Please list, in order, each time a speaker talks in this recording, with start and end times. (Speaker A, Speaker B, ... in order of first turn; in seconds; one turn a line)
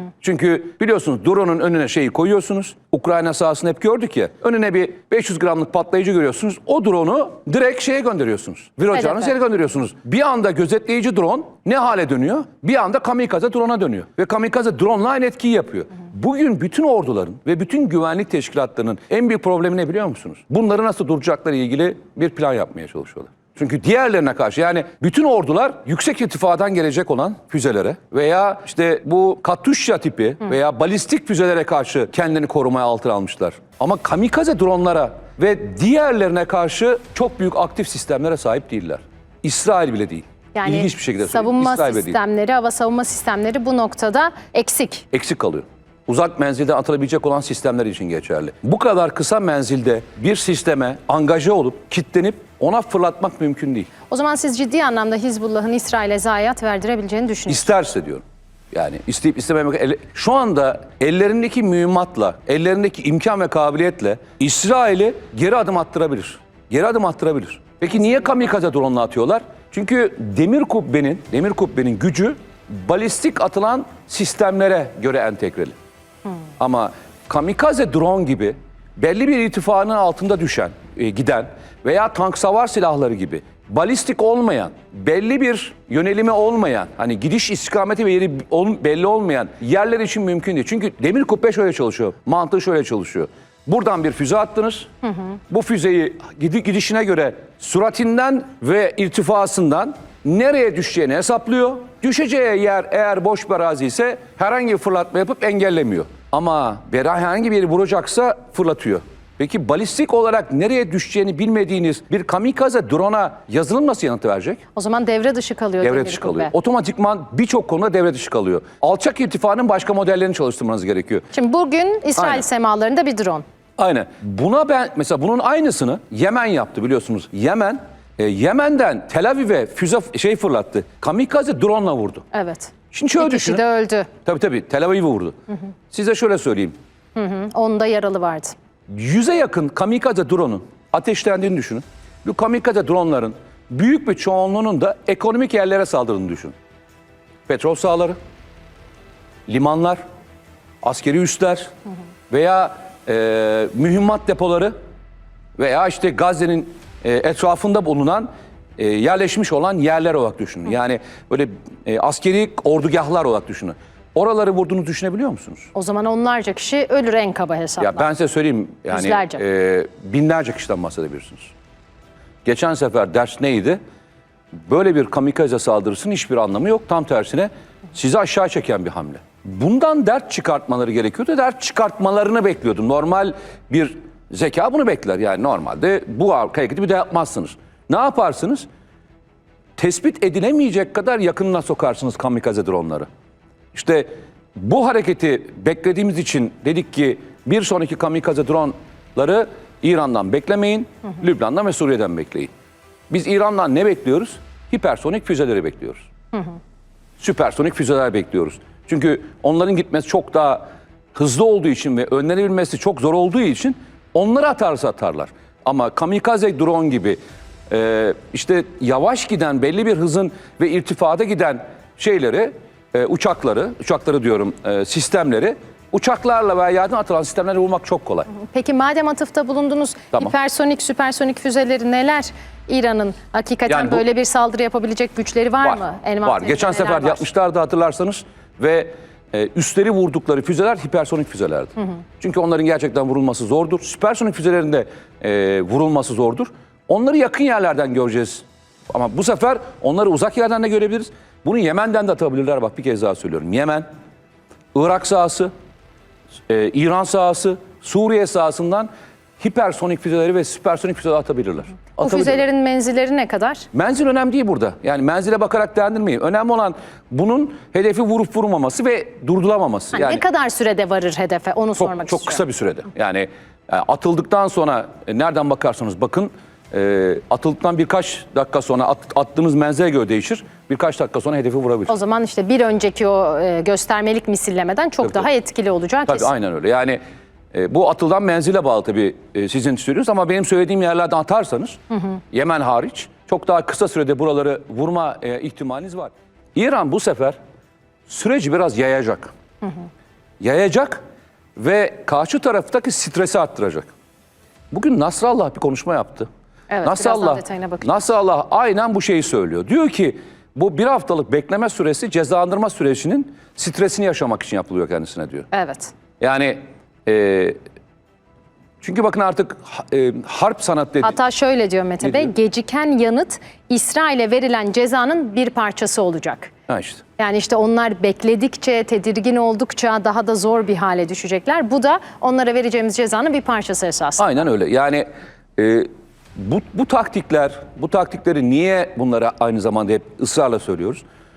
Speaker A: 0.2-42.2
Speaker B: 40.5-45.0
Speaker A: 45.1-53.9
Speaker B: 54.1-57.7
Speaker A: 57.5-75.8
Speaker A: 76.6-94.9
Speaker A: 95.5-114.6
Speaker B: 114.8-116.5
Speaker A: 115.8-121.2
Speaker B: 121.3-123.4
Speaker A: 122.2-122.4
Speaker A: 123.8-132.2
Speaker B: 132.3-134.1
Speaker A: 132.9-133.6
Speaker A: 134.2-135.3
Speaker A: 135.9-136.8
Speaker B: 137.2-138.5
Speaker A: 138.9-146.5
Speaker A: 147.5-148.2
Speaker A: 149.5-150.0
Speaker A: 150.8-151.7
Speaker A: 152.3-154.7
Speaker A: 155.6-165.7
Speaker B: 165.7-168.1
Speaker A: 167.8-171.5
Speaker B: 168.9-169.4
Speaker A: 172.4-173.8
Speaker A: 174.6-188.7
Speaker A: 189.8-193.1
Speaker A: 193.7-202.5
Speaker A: 203.1-206.1
Speaker A: 207.2-228.3
Speaker B: 228.3-237.2
Speaker A: 233.7-234.0
Speaker A: 235.6-253.8
Speaker A: 254.7-255.5
Speaker A: 256.5-262.4
Speaker B: 262.0-263.6
Speaker A: 263.7-270.2
Speaker B: 269.9-272.4
Speaker A: 271.8-281.9
Speaker B: 281.9-286.3
Speaker A: 286.1-287.0
Speaker A: 287.5-291.8
Speaker A: 292.3-297.4
Speaker A: 298.1-299.3
Speaker A: 300.4-301.0
Speaker A: 301.6-303.9
Speaker A: 304.7-306.3
Speaker B: 306.7-307.9
Speaker A: 306.8-315.5
Speaker B: 315.5-315.9
Speaker A: 316.2-317.6
Speaker A: 318.8-321.2
Speaker B: 321.0-326.5
Speaker A: 322.0-322.3
Speaker A: 326.7-327.0
Speaker B: 327.2-334.3
Speaker A: 334.2-341.0